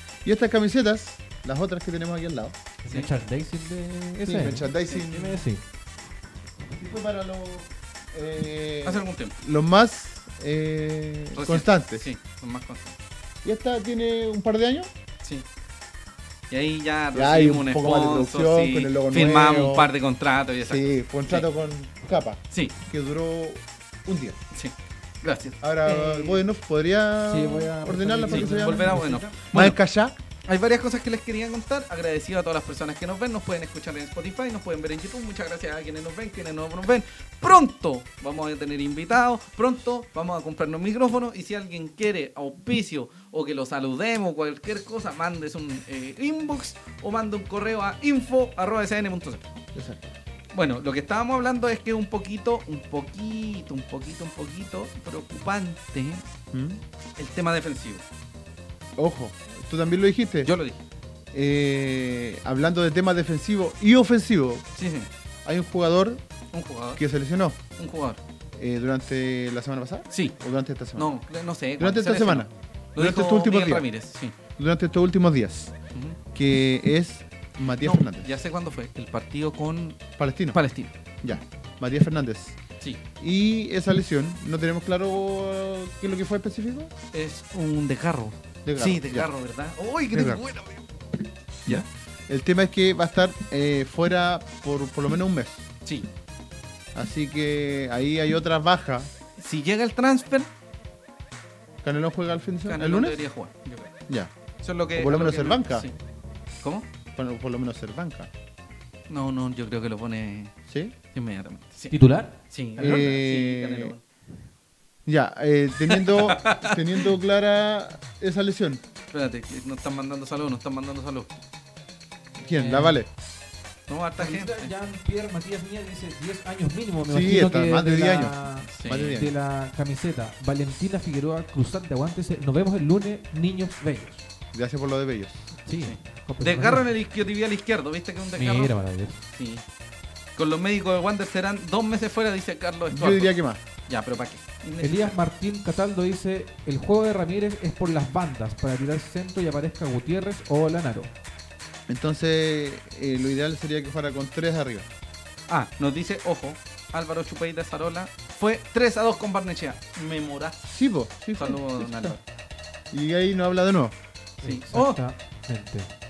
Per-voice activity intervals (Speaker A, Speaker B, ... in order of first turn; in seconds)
Speaker A: 0.2-2.5, 4.2-5.4, 6.7-12.1, 13.4-14.9, 17.1-19.9, 20.6-24.4, 25.6-29.0, 29.5-30.2, 49.7-50.1, 56.5-56.8, 59.0-60.5, 61.3-64.6, 65.5-66.2, 67.0-67.6, 68.5-71.1, 71.8-73.9, 74.6-75.7, 76.3-78.3, 80.2-80.6, 81.2-82.6, 83.2-86.9, 88.6-89.3, 90.1-90.4, 91.7-95.7, 96.9-99.1, 101.8-103.2, 105.0-105.9, 107.1-108.3, 110.7-110.9, 112.8-114.0, 115.0-118.8, 122.4-123.1, 127.1-129.3, 134.5-135.5, 142.9-143.6, 151.9-154.9, 160.7-162.1, 162.9-163.9
Speaker B: 2.8-5.6, 27.2-29.4, 111.9-112.4, 122.5-123.0, 124.2-134.2, 135.6-136.9, 138.4-139.2, 144.8-151.1, 164.4-165.9
Speaker C: 4.8-5.4, 8.8-9.3, 11.3-12.9, 16.5-21.5, 22.5-22.8, 24.5-26.4, 28.3-29.8, 30.5-49.5, 50.5-56.2, 57.2-58.0, 60.5-60.8, 64.8-65.1, 66.5-67.0, 67.8-68.2, 70.1-70.4, 71.0-74.4, 77.8-80.9, 87.1-90.8, 99.4-100.5, 102.7-104.0, 104.6-105.9, 109.1-110.5, 111.1-114.0, 115.9-117.1, 119.1-121.3, 123.9-124.7, 128.7-129.2, 135.8-138.7, 139.3-139.6, 140.4-143.3, 143.9-145.1, 155.5-160.7, 161.4-162.2, 164.4-165.0